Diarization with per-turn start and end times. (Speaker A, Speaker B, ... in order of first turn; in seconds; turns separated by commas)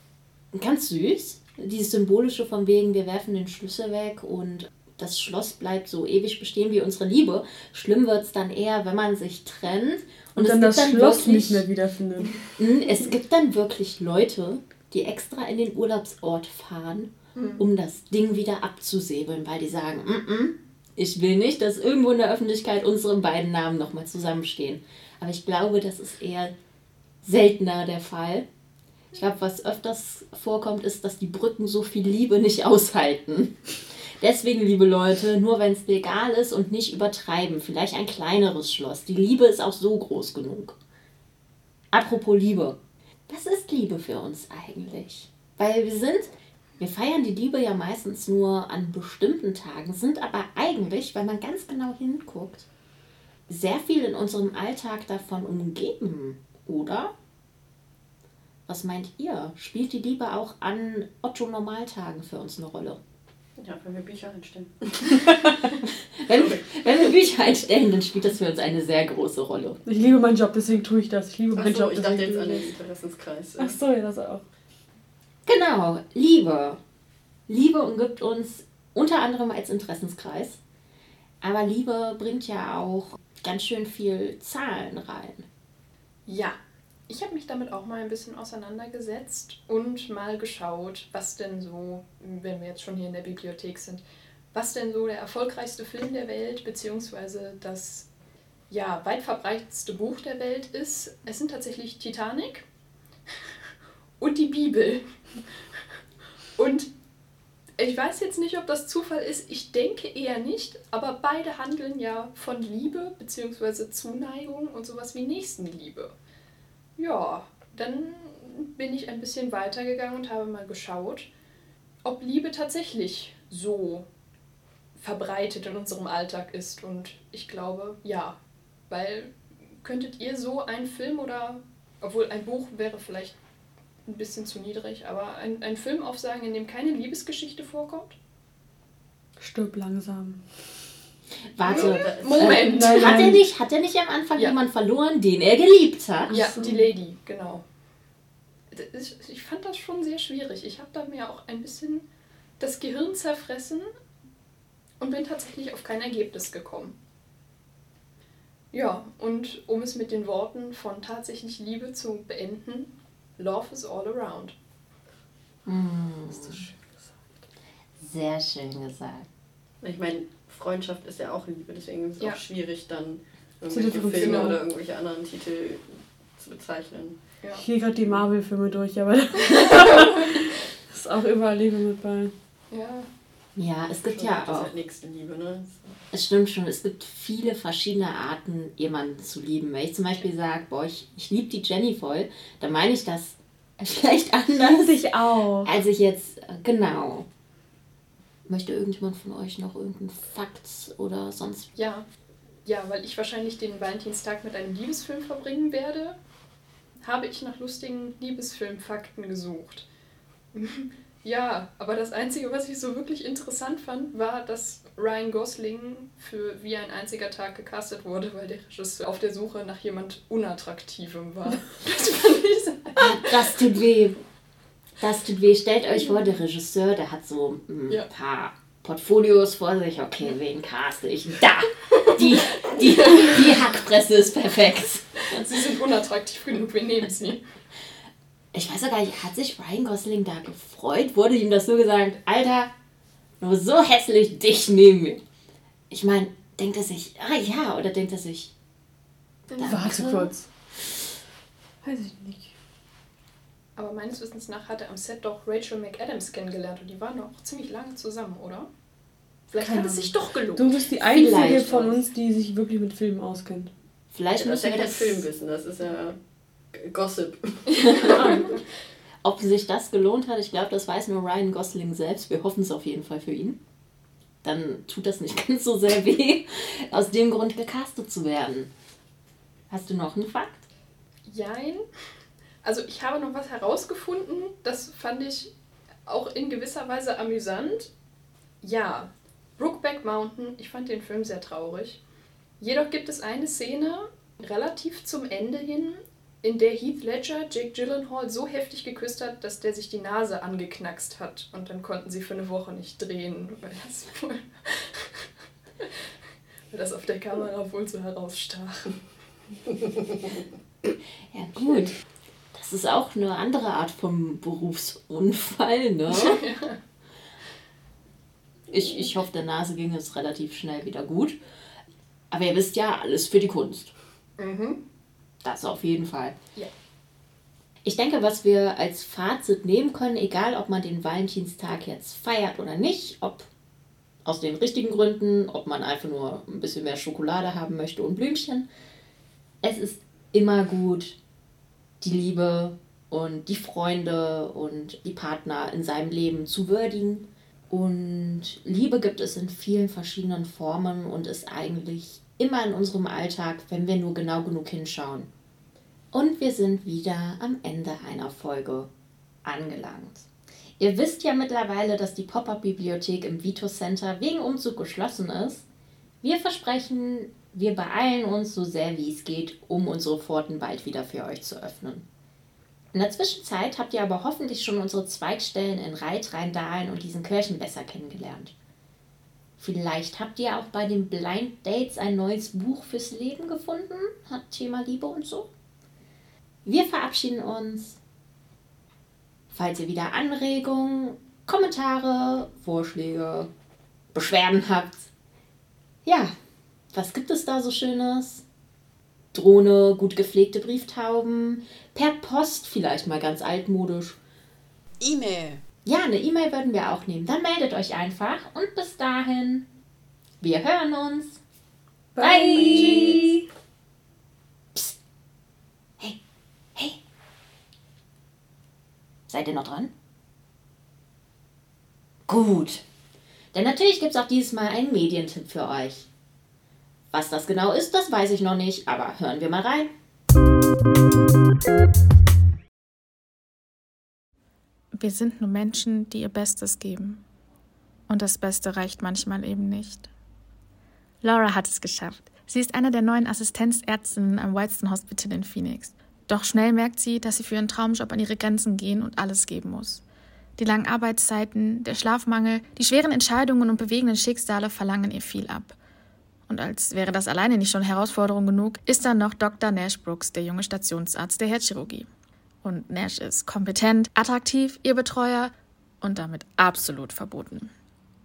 Speaker A: 0.5-11.7, Speaker B: 10.3-12.3, Speaker A: 12.6-26.5, Speaker C: 17.3-17.6, Speaker A: 27.2-28.5, Speaker A: 29.1-40.7, Speaker A: 41.9-52.6, Speaker A: 53.5-57.1, Speaker A: 58.7-63.0, Speaker D: 63.6-65.4, Speaker A: 66.2-69.8, Speaker D: 66.3-66.6, Speaker B: 69.8-72.7, Speaker D: 71.5-73.8, Speaker B: 73.6-74.4, Speaker A: 75.5-76.8, Speaker A: 77.5-80.6, Speaker A: 81.4-85.4, Speaker C: 86.3-86.5, Speaker C: 87.1-94.0, Speaker C: 94.5-98.1, Speaker C: 98.7-102.6, Speaker C: 104.2-105.1, Speaker C: 106.5-106.9, Speaker C: 107.8-116.1, Speaker C: 117.0-121.3, Speaker C: 122.0-124.1, Speaker C: 125.0-128.4, Speaker C: 128.9-133.4, Speaker C: 134.1-138.2, Speaker B: 139.4-140.4, Speaker A: 141.6-146.3, Speaker D: 141.6-142.7, Speaker C: 141.6-143.3, Speaker B: 142.6-143.4, Speaker B: 146.3-146.9, Speaker C: 146.3-147.6, Speaker C: 148.7-152.0, Speaker C: 152.6-153.9, Speaker C: 155.0-156.9, Speaker C: 158.7-164.5, Speaker A: 165.7-166.6, Speaker A: 168.0-169.3, Speaker D: 169.8-177.2, Speaker B: 173.7-174.6, Speaker C: 174.2-174.5, Speaker B: 177.6-182.3, Speaker C: 179.8-180.3, Speaker C: 182.7-183.1, Speaker A: 183.6-184.7, Speaker D: 184.1-186.0, Speaker A: 186.1-194.9, Speaker B: 194.5-195.8, Speaker A: 195.6-197.3, Speaker A: 198.5-201.7, Speaker C: 201.8-202.1, Speaker C: 202.6-206.2, Speaker C: 207.0-209.8, Speaker C: 210.5-223.6, Speaker A: 223.0-224.2, Speaker A: 225.0-235.6, Speaker C: 225.9-226.4, Speaker C: 231.9-233.6, Speaker C: 235.3-237.4, Speaker A: 238.5-242.7, Speaker A: 243.4-245.2, Speaker A: 245.9-248.5, Speaker A: 249.5-250.3, Speaker B: 249.6-250.5, Speaker B: 251.8-252.5, Speaker C: 253.8-258.7, Speaker C: 259.5-260.7, Speaker B: 259.6-263.7, Speaker A: 261.0-261.9, Speaker A: 264.1-265.2, Speaker D: 264.4-266.2, Speaker D: 266.7-268.2, Speaker C: 267.8-268.5, Speaker A: 268.0-268.5, Speaker A: 269.2-273.6, Speaker A: 274.4-278.7, Speaker A: 279.7-280.7, Speaker C: 281.2-281.8, Speaker C: 282.6-285.5, Speaker C: 286.1-287.9, Speaker C: 288.6-292.0, Speaker C: 292.6-305.3, Speaker C: 306.7-309.0, Speaker A: 311.3-311.9, Speaker A: 312.5-316.4, Speaker C: 316.1-316.8, Speaker A: 318.7-321.4, Speaker C: 318.8-319.1, Speaker A: 322.3-323.9, Speaker C: 324.4-324.8, Speaker A: 325.4-326.3, Speaker A: 327.8-333.5, Speaker A: 334.2-338.6, Speaker A: 339.6-341.1, Speaker A: 342.0-355.3, Speaker A: 356.1-358.9, Speaker A: 359.4-360.2, Speaker A: 360.8-365.6, Speaker A: 366.2-372.0, Speaker A: 372.9-378.5, Speaker A: 379.6-385.5, Speaker A: 386.6-388.0, Speaker A: 389.5-393.5, Speaker A: 394.1-395.1, Speaker A: 396.0-396.3, Speaker A: 396.9-398.4, Speaker A: 399.3-404.2, Speaker D: 405.0-405.6, Speaker A: 405.8-409.6, Speaker A: 410.4-411.4, Speaker B: 412.1-413.4, Speaker A: 412.2-413.4, Speaker A: 419.3-419.9, Speaker A: 422.3-422.8, Speaker A: 423.5-426.1, Speaker A: 427.1-429.9, Speaker E: 434.9-437.2, Speaker E: 438.1-440.1, Speaker E: 441.2-450.0, Speaker E: 450.6-455.8, Speaker E: 456.5-462.1, Speaker E: 462.6-467.7